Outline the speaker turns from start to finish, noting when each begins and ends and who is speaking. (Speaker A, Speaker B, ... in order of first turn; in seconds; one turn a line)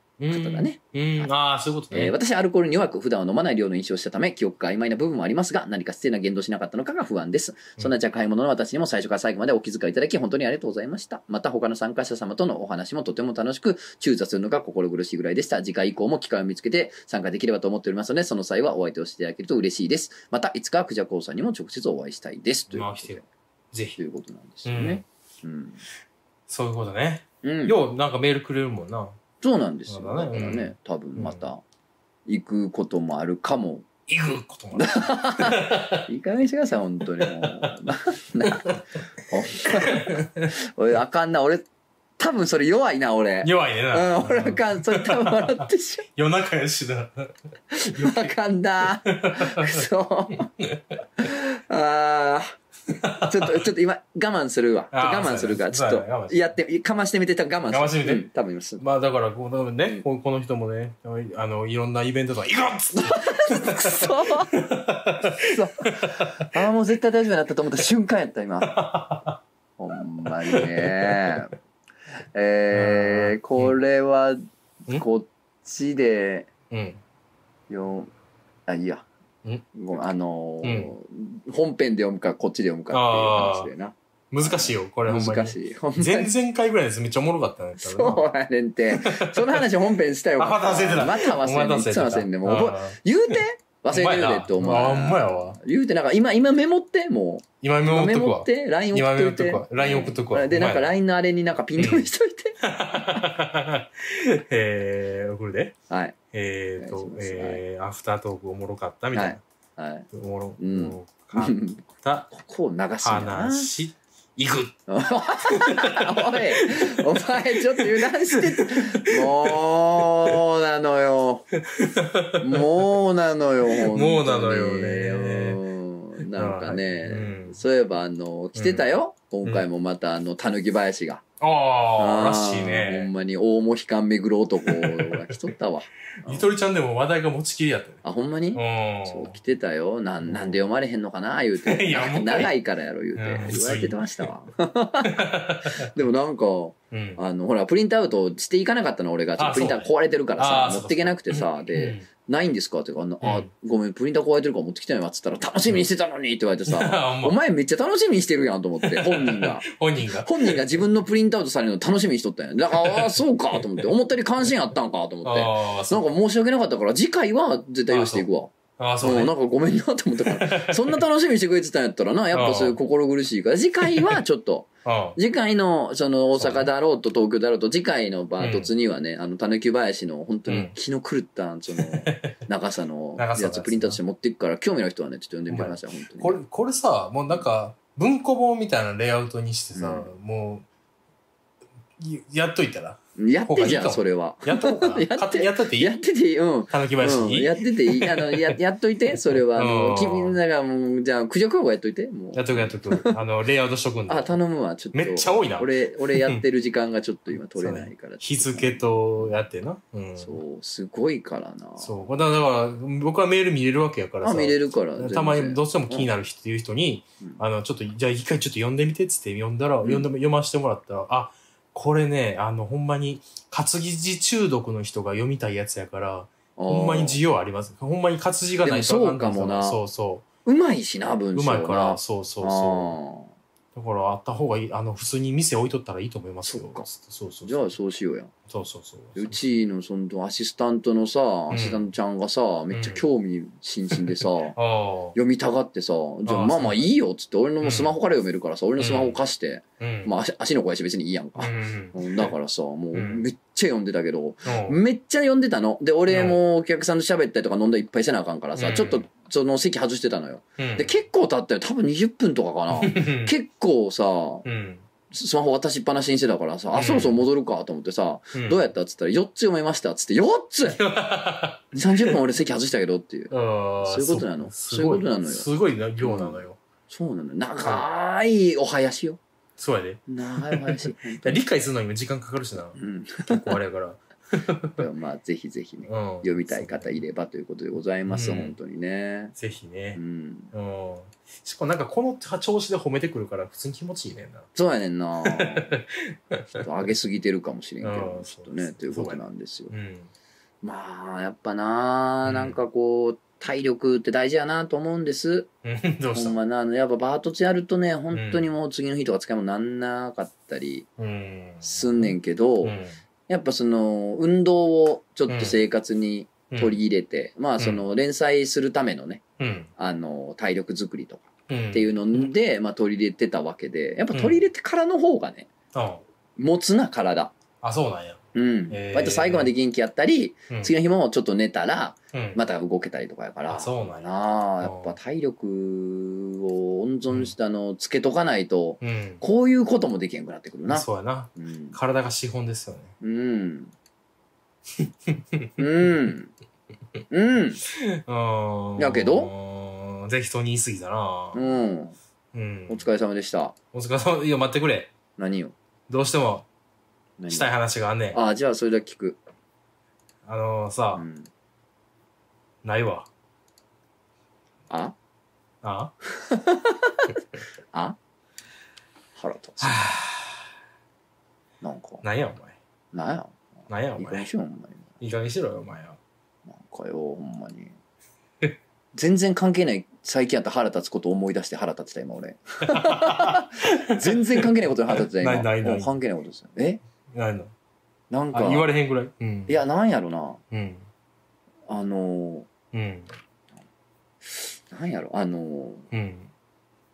Speaker A: 0.2-2.1
Speaker B: 0.3-1.3
Speaker B: 1.9-23.2
Speaker A: 22.7-23.2
Speaker A: 23.7-24.0
Speaker B: 24.0-25.8
Speaker A: 24.6-25.0
Speaker A: 26.5-29.1
Speaker B: 27.4-27.8
Speaker B: 29.4-31.6
Speaker A: 29.9-31.5
Speaker B: 32.3-33.9
Speaker A: 34.1-36.1
Speaker B: 34.8-41.6
Speaker A: 37.2-37.7
Speaker A: 38.5-38.8
Speaker A: 39.9-40.5
Speaker B: 42.2-46.1
Speaker A: 43.4-45.6
Speaker A: 46.2-47.3
Speaker B: 47.8-50.5
Speaker A: 47.9-48.3
Speaker A: 49.1-49.8
Speaker A: 50.6-50.8
Speaker B: 51.2-52.6
Speaker A: 53.0-53.6
Speaker B: 53.2-58.8
Speaker A: 54.9-56.5
Speaker A: 57.7-58.3
Speaker A: 58.8-65.4
Speaker B: 63.0-64.5
Speaker B: 65.4-68.8
Speaker A: 66.0-66.5
Speaker A: 68.7-69.4
Speaker B: 69.8-71.5
Speaker A: 70.5-71.4
Speaker B: 72.3-76.5
Speaker A: 72.7-73.7
Speaker A: 76.7-77.0
Speaker B: 77.7-78.1
Speaker B: 78.7-79.1
Speaker B: 79.7-86.3
Speaker A: 80.6-80.9
Speaker A: 82.9-83.7
Speaker A: 84.3-88.3
Speaker B: 87.8-103.2
Speaker A: 88.9-89.7
Speaker A: 90.4-93.3
Speaker A: 93.9-95.6
Speaker A: 97.6-100.9
Speaker A: 101.8-102.1
Speaker A: 102.6-105.8
Speaker B: 105.9-106.2
Speaker A: 106.3-109.4
Speaker B: 106.8-107.6
Speaker B: 109.1-113.7
Speaker A: 110.1-112.3
Speaker A: 113.0-114.8
Speaker B: 114.9-121.5
Speaker A: 115.5-116.8
Speaker A: 118.4-119.5
Speaker A: 121.7-122.6
Speaker B: 122.4-131.2
Speaker A: 123.8-125.6
Speaker A: 126.3-127.6
Speaker A: 128.6-128.9
Speaker A: 131.4-133.1
Speaker B: 132.0-136.5
Speaker A: 134.7-135.3
Speaker A: 136.2-138.0
Speaker B: 138.0-186.4
Speaker A: 138.5-139.4
Speaker A: 140.2-140.7
Speaker A: 141.6-142.5
Speaker A: 143.2-144.3
Speaker A: 145.1-145.9
Speaker A: 146.9-147.2
Speaker A: 149.4-152.1
Speaker A: 153.2-153.5
Speaker A: 156.7-157.3
Speaker A: 158.8-160.8
Speaker A: 162.7-163.9
Speaker A: 165.2-166.0
Speaker A: 167.9-168.2
Speaker A: 168.8-169.3
Speaker A: 170.2-171.0
Speaker A: 172.3-172.8
Speaker A: 173.9-174.2
Speaker A: 174.8-175.2
Speaker A: 176.3-176.7
Speaker A: 178.4-178.7
Speaker A: 180.5-180.7
Speaker A: 181.7-182.3
Speaker A: 183.2-184.0
Speaker A: 185.5-190.7
Speaker B: 189.8-190.1
Speaker A: 192.0-195.9
Speaker B: 193.2-203.2
Speaker A: 196.7-198.6
Speaker A: 199.5-200.4
Speaker A: 202.3-204.4
Speaker B: 204.1-209.3
Speaker A: 204.9-206.4
Speaker A: 207.6-210.4
Speaker B: 210.2-212.0
Speaker A: 211.8-230.2
Speaker B: 214.2-216.1
Speaker B: 226.6-227.2
Speaker B: 228.6-229.8
Speaker B: 230.5-233.3
Speaker A: 231.3-232.9
Speaker A: 233.7-237.7
Speaker B: 236.4-236.9
Speaker B: 237.4-238.3
Speaker A: 238.5-239.4
Speaker B: 239.2-244.6
Speaker A: 241.5-241.9
Speaker A: 242.7-243.0
Speaker A: 243.9-245.2
Speaker B: 245.2-264.4
Speaker A: 246.3-247.0
Speaker A: 247.6-248.0
Speaker A: 248.8-249.2
Speaker A: 249.8-250.1
Speaker A: 251.4-252.3
Speaker A: 252.9-253.3
Speaker A: 254.4-254.8
Speaker A: 256.1-256.4
Speaker A: 258.5-259.0
Speaker A: 260.6-260.9
Speaker A: 262.7-263.3
Speaker A: 264.4-264.8
Speaker B: 265.1-270.8
Speaker A: 266.7-267.2
Speaker A: 268.3-268.6
Speaker A: 270.6-271.8
Speaker B: 271.7-275.5
Speaker A: 273.3-276.6
Speaker B: 276.0-279.2
Speaker A: 279.6-284.8
Speaker B: 280.1-281.4
Speaker B: 282.8-283.6
Speaker B: 284.8-289.4
Speaker A: 285.9-287.0
Speaker A: 288.1-288.6
Speaker A: 289.4-290.0
Speaker B: 289.9-290.5
Speaker A: 290.5-294.5
Speaker B: 294.5-295.7
Speaker A: 295.3-296.6
Speaker B: 296.5-299.7
Speaker A: 297.8-300.1
Speaker B: 300.6-305.5
Speaker A: 302.2-302.6
Speaker A: 305.6-306.4
Speaker B: 306.1-310.9
Speaker A: 308.1-308.5
Speaker A: 311.0-313.0
Speaker B: 311.6-312.8
Speaker B: 313.3-319.2
Speaker A: 315.3-315.6
Speaker A: 316.5-316.8
Speaker A: 317.6-317.9
Speaker A: 319.4-319.7
Speaker B: 319.8-325.5
Speaker A: 321.5-321.9
Speaker A: 324.1-324.4
Speaker A: 325.7-326.0
Speaker B: 326.4-327.3
Speaker A: 327.6-329.5
Speaker B: 328.4-341.8
Speaker A: 332.1-332.4
Speaker A: 333.5-334.1
Speaker A: 334.6-335.0
Speaker A: 338.8-339.2
Speaker A: 340.7-342.9
Speaker B: 343.0-343.7
Speaker A: 344.8-345.5
Speaker B: 345.6-346.3
Speaker B: 347.1-347.6
Speaker A: 347.9-351.4
Speaker B: 348.8-349.3
Speaker B: 351.3-351.9
Speaker A: 352.3-352.9
Speaker B: 352.7-353.5
Speaker A: 353.7-354.9
Speaker B: 355.2-355.5
Speaker A: 355.9-356.5
Speaker B: 357.2-357.5
Speaker A: 357.3-358.2
Speaker B: 358.1-359.2
Speaker A: 360.2-361.0
Speaker B: 360.9-361.3
Speaker A: 362.6-363.1
Speaker B: 364.7-364.9
Speaker A: 365.6-365.9
Speaker B: 366.2-367.1
Speaker B: 369.2-369.9
Speaker A: 369.6-370.4
Speaker B: 371.6-372.0
Speaker A: 372.0-372.6
Speaker B: 372.9-373.4
Speaker A: 373.7-374.2
Speaker B: 374.0-374.9
Speaker A: 375.0-376.0
Speaker B: 376.5-377.7
Speaker B: 378.9-386.8
Speaker A: 382.7-385.9
Speaker A: 387.1-387.5
Speaker B: 388.1-388.7
Speaker A: 388.3-389.6
Speaker B: 389.5-390.4
Speaker A: 390.5-390.9
Speaker B: 391.7-392.5
Speaker A: 392.7-393.1
Speaker B: 394.4-395.9
Speaker A: 395.9-396.3